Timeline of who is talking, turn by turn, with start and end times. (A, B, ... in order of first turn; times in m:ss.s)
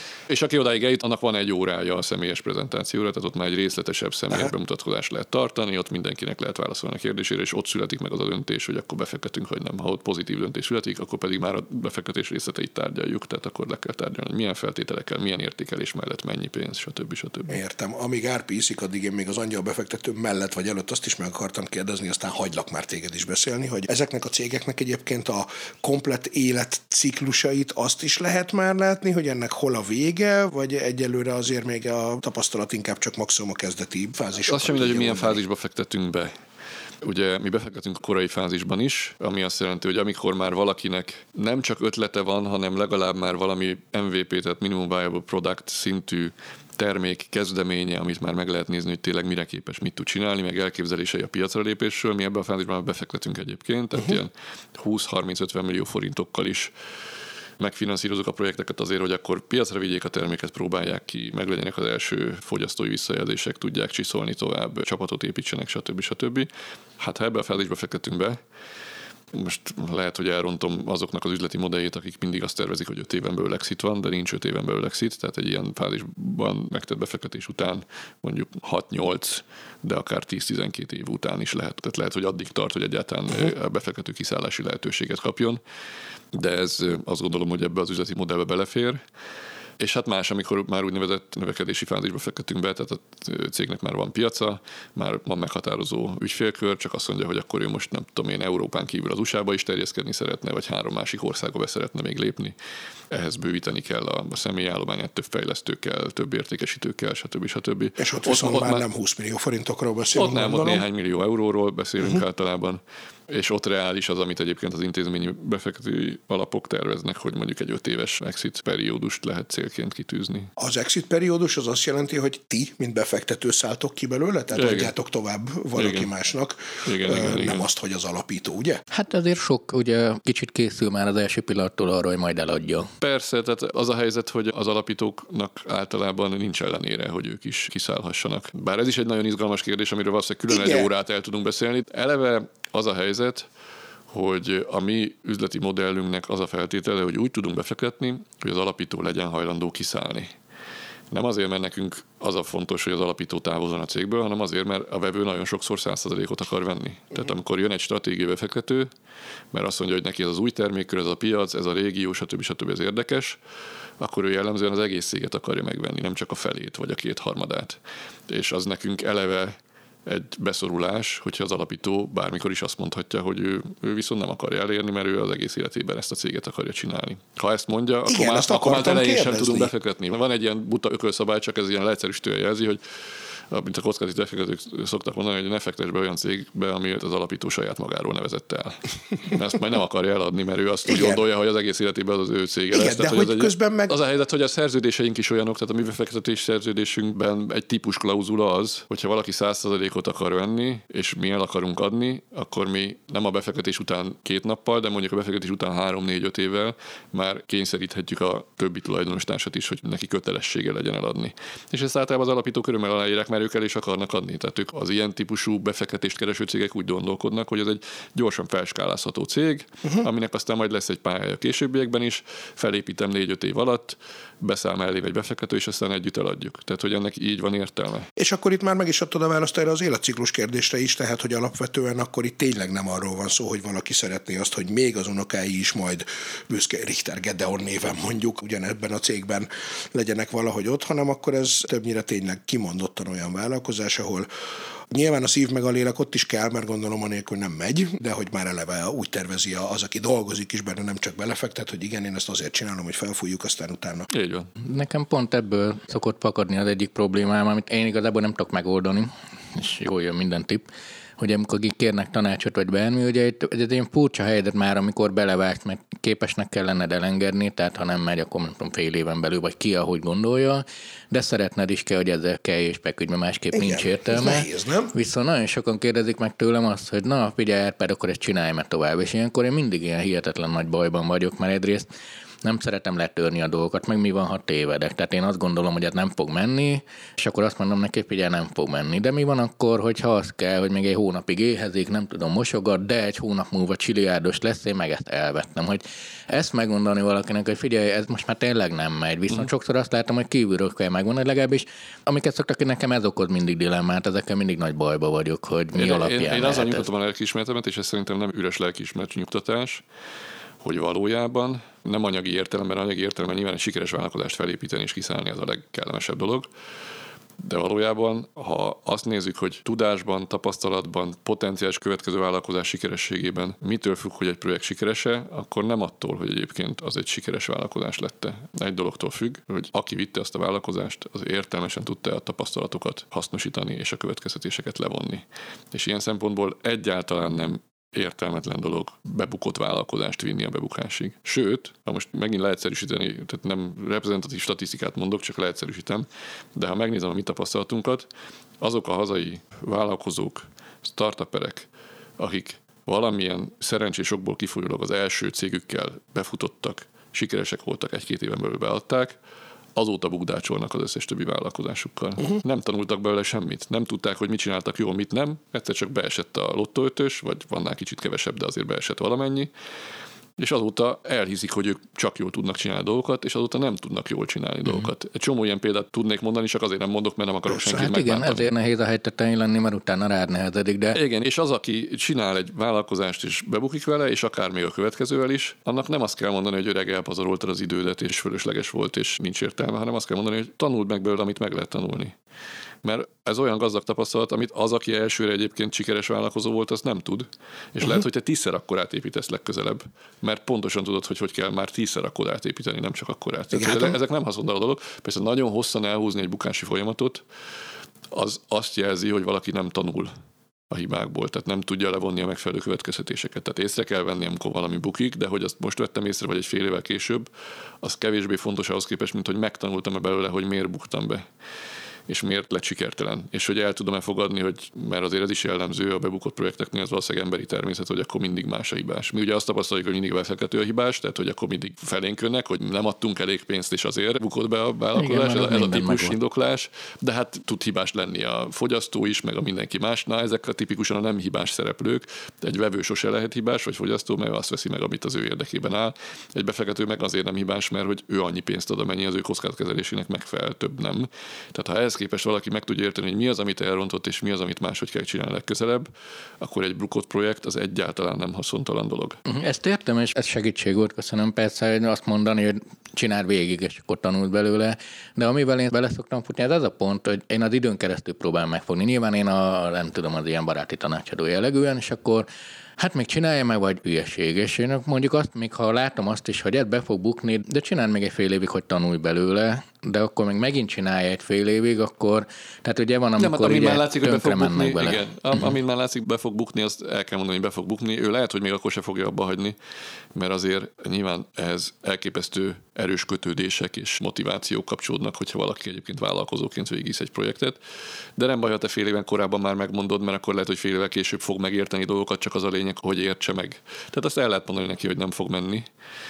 0:00.3-0:17.6 A
0:17.5-0:35.4 B
0:34.4-0:36.3 A
0:37.0-0:56.7 A
0:57.6-1:08.4 A
1:09.3-1:25.6 A
1:26.3-1:29.0 A
1:29.8-1:42.5 A
1:43.1-1:48.8 A
1:48.0-1:50.8 B
1:50.1-2:00.5 A
2:00.6-2:08.8 B
2:04.5-2:04.9 A
2:05.8-2:06.1 A
2:06.8-2:07.7 A
2:08.9-2:12.9 C
2:13.0-2:23.5 A
2:20.5-2:20.9 B
2:24.1-2:30.3 A
2:31.1-2:38.9 A
2:39.5-2:43.4 A
2:44.0-2:49.6 A
2:50.1-3:02.8 A
2:58.1-2:59.7 B
3:03.5-3:48.1 A
3:10.9-3:11.2 B
3:12.7-3:14.0 B
3:48.2-4:04.3 B
4:04.9-4:14.1 B
4:14.1-4:14.5 A
4:14.6-4:20.6 C
4:21.2-4:41.9 C
4:33.5-4:34.9 B
4:42.4-5:06.9 C
5:05.8-5:09.8 A
5:10.6-5:16.5 A
5:17.4-5:48.1 A
5:48.6-5:51.7 A
5:52.2-5:59.2 A
5:59.8-6:09.5 A
6:10.4-6:18.5 A
6:17.5-6:17.9 B
6:17.8-6:21.0 C
6:21.0-6:32.1 A
6:32.8-6:47.2 A
6:43.5-6:44.0 B
6:48.1-6:50.1 A
6:50.7-6:57.3 A
6:57.8-7:01.2 A
7:02.1-7:35.9 A
7:15.0-7:16.2 C
7:36.4-7:39.2 A
7:39.3-7:52.3 C
7:52.8-8:05.1 C
8:03.2-8:09.6 A
8:10.2-8:17.6 A
8:18.2-8:25.6 A